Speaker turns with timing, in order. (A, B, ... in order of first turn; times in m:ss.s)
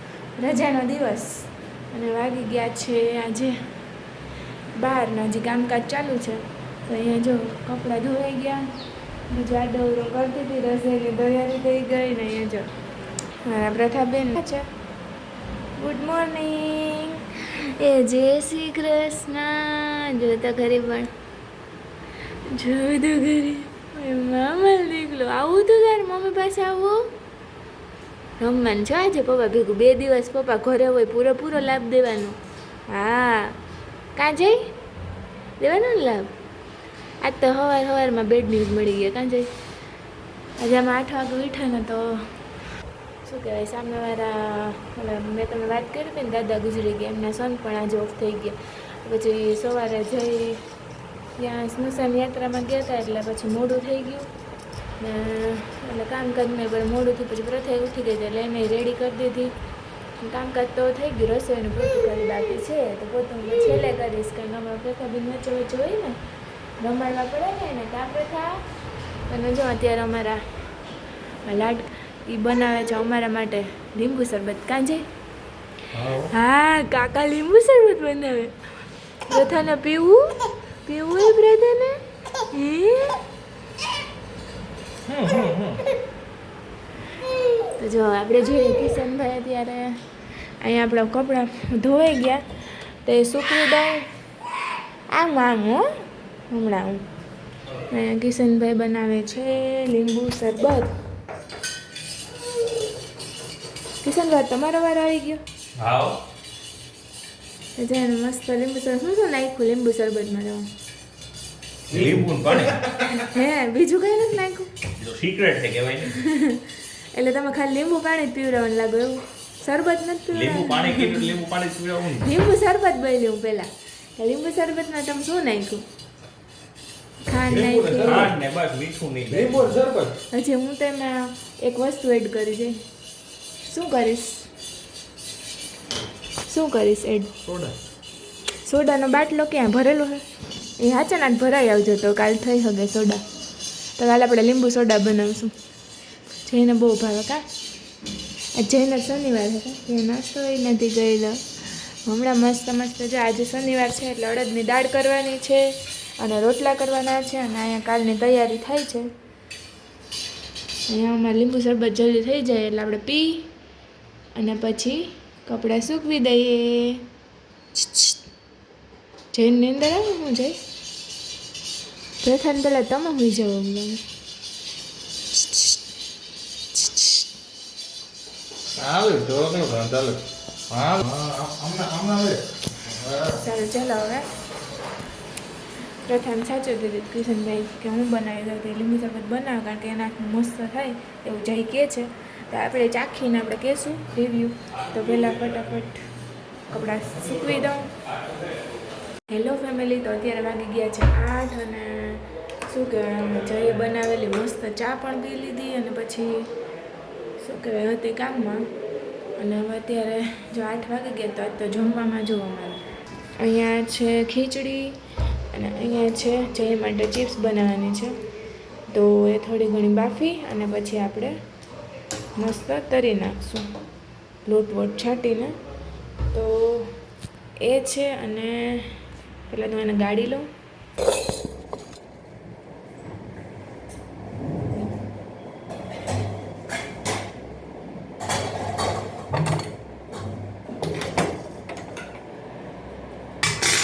0:00.4-0:03.6 A
0:04.8-0:08.7 A
0:09.3-0:12.7 A
0:13.4-0:14.7 A
0:15.8-0:21.1 A
0:22.4-0:27.1 A
0:28.4-0:33.6 A
0:34.2-0:34.7 A
0:35.6-0:36.4 A
0:37.2-0:39.5 A
0:40.6-0:42.3 A
0:43.2-0:50.6 A
0:51.4-0:54.3 A
0:55.0-0:59.5 A
1:00.2-1:06.2 A
1:06.8-1:08.7 A
1:09.3-1:10.7 A
1:11.4-1:15.0 A
1:15.9-1:16.3 B
1:16.3-1:18.8 A
1:19.3-1:23.2 A
1:25.1-1:25.8 B
1:27.8-1:30.0 A
1:30.6-1:34.1 A
1:35.1-1:37.0 A
1:37.9-1:40.9 A
1:44.0-1:45.4 A
1:45.8-1:46.2 C
1:47.8-1:50.7 A
1:51.9-1:52.9 C
1:51.9-1:52.2 B
1:53.1-1:54.8 A
1:55.0-1:56.2 C
1:56.1-2:01.3 A
2:00.3-2:02.3 C
2:02.2-2:05.8 A
2:07.2-2:08.3 A
2:07.5-2:08.4 B
2:08.0-2:09.7 C
2:09.3-2:10.2 B
2:10.3-2:12.8 A
2:13.7-2:14.5 A
2:16.4-2:17.3 A
2:17.5-2:17.8 B
2:18.6-2:20.2 A
2:20.8-2:23.2 A
2:24.0-2:25.6 A
2:26.4-2:27.5 A
2:28.6-2:39.1 A
2:40.9-2:43.5 A
2:44.4-2:47.1 A
2:47.8-2:48.2 A
2:49.3-2:50.6 A
2:52.2-2:54.0 A
2:56.8-2:57.1 A
2:58.8-3:03.4 B
3:03.4-3:04.3 A
3:06.0-3:16.0 A
3:16.7-3:17.9 A
3:19.3-3:26.5 A
3:27.4-3:28.7 A
3:29.4-3:38.2 A
3:38.9-3:41.4 A
3:42.4-3:43.7 A
3:44.4-3:45.6 A
3:46.3-3:47.0 A
3:47.6-3:50.5 A